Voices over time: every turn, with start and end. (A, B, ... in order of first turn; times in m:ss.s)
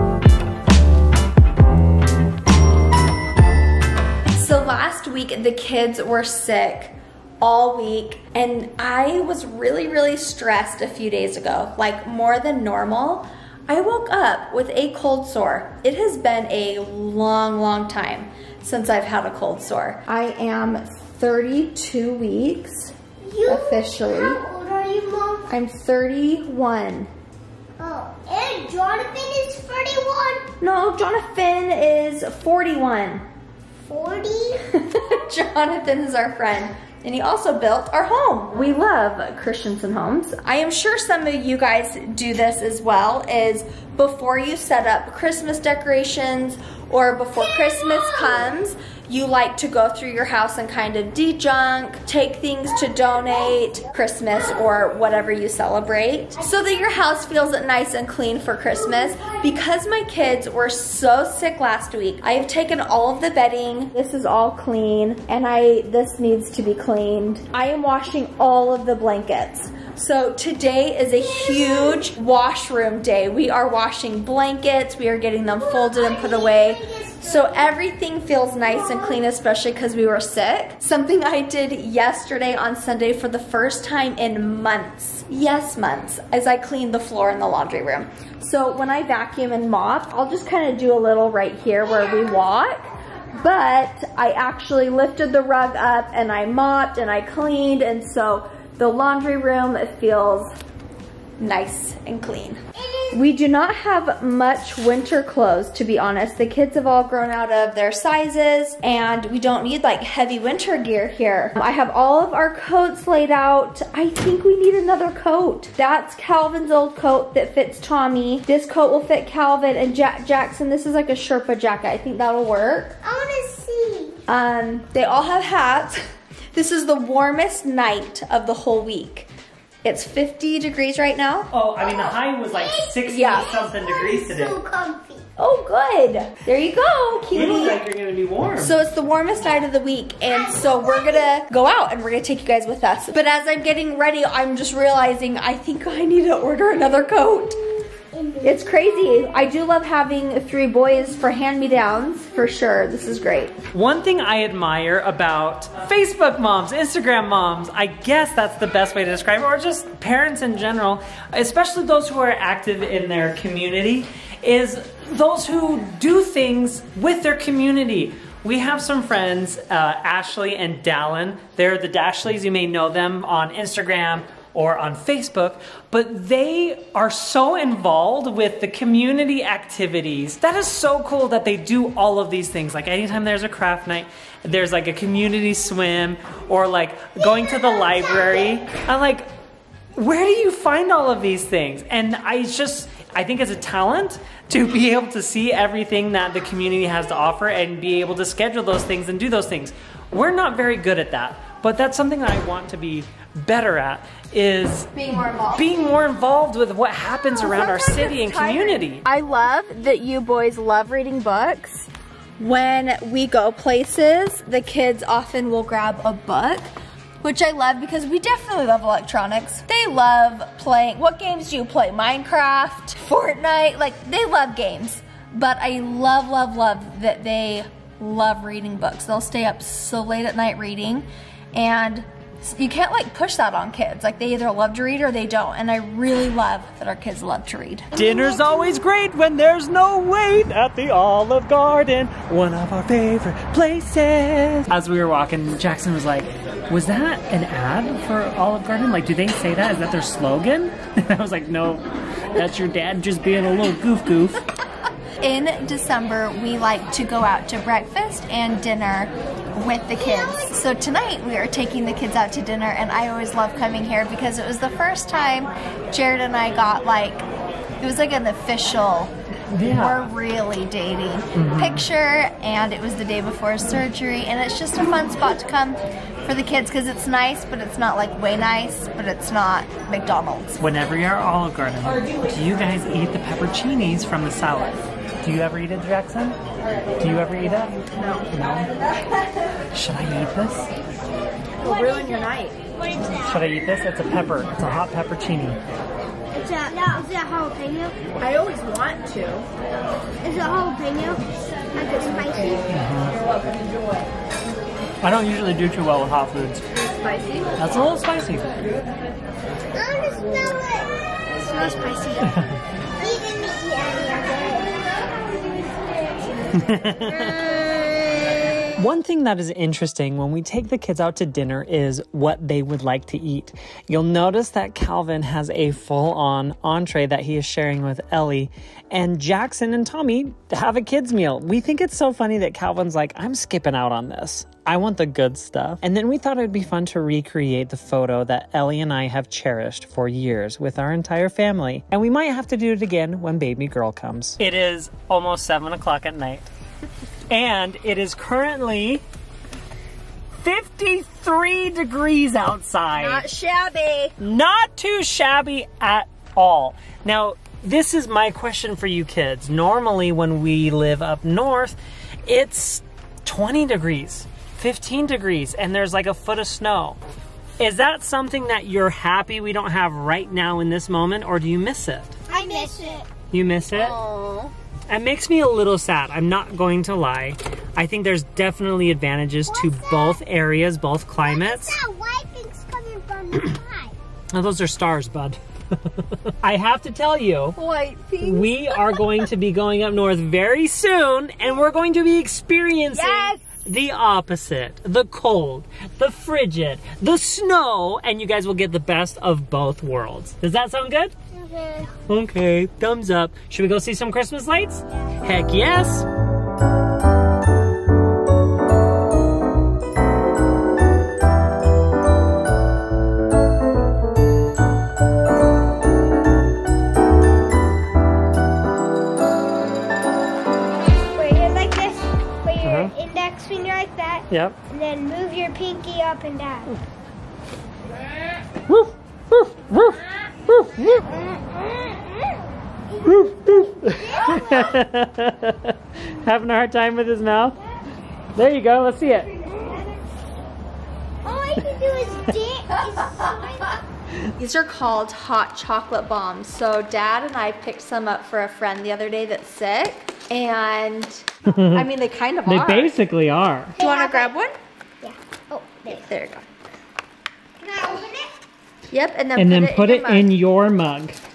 0:04.3-0:24.4 A
0:23.2-0:25.5 B
0:25.5-0:27.1 A
0:27.8-0:30.4 B
0:30.6-0:33.2 A
0:33.8-0:34.6 B
0:34.8-1:40.5 A
0:47.6-0:48.2 B
1:11.1-1:12.1 B
1:15.5-1:17.7 B
1:18.6-1:19.2 B
1:41.4-1:42.6 A
1:42.7-1:43.2 B
1:43.1-2:03.0 A
2:03.0-2:04.2 B
2:04.3-2:06.0 A
2:06.5-2:09.3 A
2:09.8-2:11.5 A
2:11.5-2:14.6 C
2:11.8-2:15.2 B
2:13.0-2:13.4 A
2:15.4-2:17.8 A
2:17.3-2:18.8 C
2:18.6-2:27.6 A
2:20.3-2:21.3 B
2:28.0-2:29.4 B
2:28.4-2:33.5 A
2:33.7-3:09.3 C
3:10.0-3:29.0 C
3:24.9-3:26.0 A
3:27.1-3:36.7 A
3:37.2-3:57.9 A
3:57.9-4:14.4 C
4:15.2-4:27.2 A
4:20.0-4:20.6 B
4:27.8-4:40.6 A
4:29.5-4:30.1 C
4:31.3-4:31.8 C
4:40.6-4:46.4 C
4:47.0-4:48.7 C
4:47.9-4:48.3 A
4:49.7-4:50.7 C
4:51.6-4:52.6 A
4:51.7-4:52.2 B
4:52.8-4:53.3 B
4:53.2-4:55.6 C
4:56.3-4:58.0 B
4:58.2-4:59.5 A
5:00.2-5:02.7 B
5:02.7-5:03.2 C
5:05.0-5:06.6 C
5:06.8-5:07.8 A
5:07.6-5:08.5 C
5:09.7-5:12.3 B
5:12.2-5:12.6 C
5:13.0-5:14.8 B
5:16.5-5:17.4 C
5:17.5-5:17.8 B
5:18.8-5:46.5 C
5:47.3-5:49.0 C
5:50.4-5:53.2 C
5:52.9-5:54.1 A
5:54.2-6:07.0 C
6:07.6-6:12.2 C
6:12.3-6:13.1 B
6:12.3-6:12.8 A
6:13.3-6:14.0 C
6:13.7-6:14.5 A
6:14.9-6:21.8 C
6:19.5-6:20.2 B
6:21.2-6:24.0 B
6:24.3-6:27.6 C
6:27.6-6:29.0 A
6:28.2-6:41.1 C
6:32.9-6:33.4 A
6:41.3-6:41.9 B
6:42.1-6:46.1 C
7:00.9-7:06.7 B
7:02.6-7:02.9 C
7:04.3-7:04.6 C
7:08.7-7:11.0 C
7:11.3-7:12.0 B
7:13.0-7:17.6 C
7:13.4-7:14.7 B
7:18.3-7:19.4 C
7:19.5-7:19.9 B
7:21.2-7:23.8 B
7:24.4-7:33.0 A
7:31.4-7:31.9 C
7:32.4-7:33.8 C
7:33.8-7:34.3 B
7:33.8-7:34.5 A
7:35.0-7:36.1 B
7:35.9-7:36.4 A
7:37.6-7:38.4 B
7:38.9-7:40.3 A
7:39.4-7:41.2 C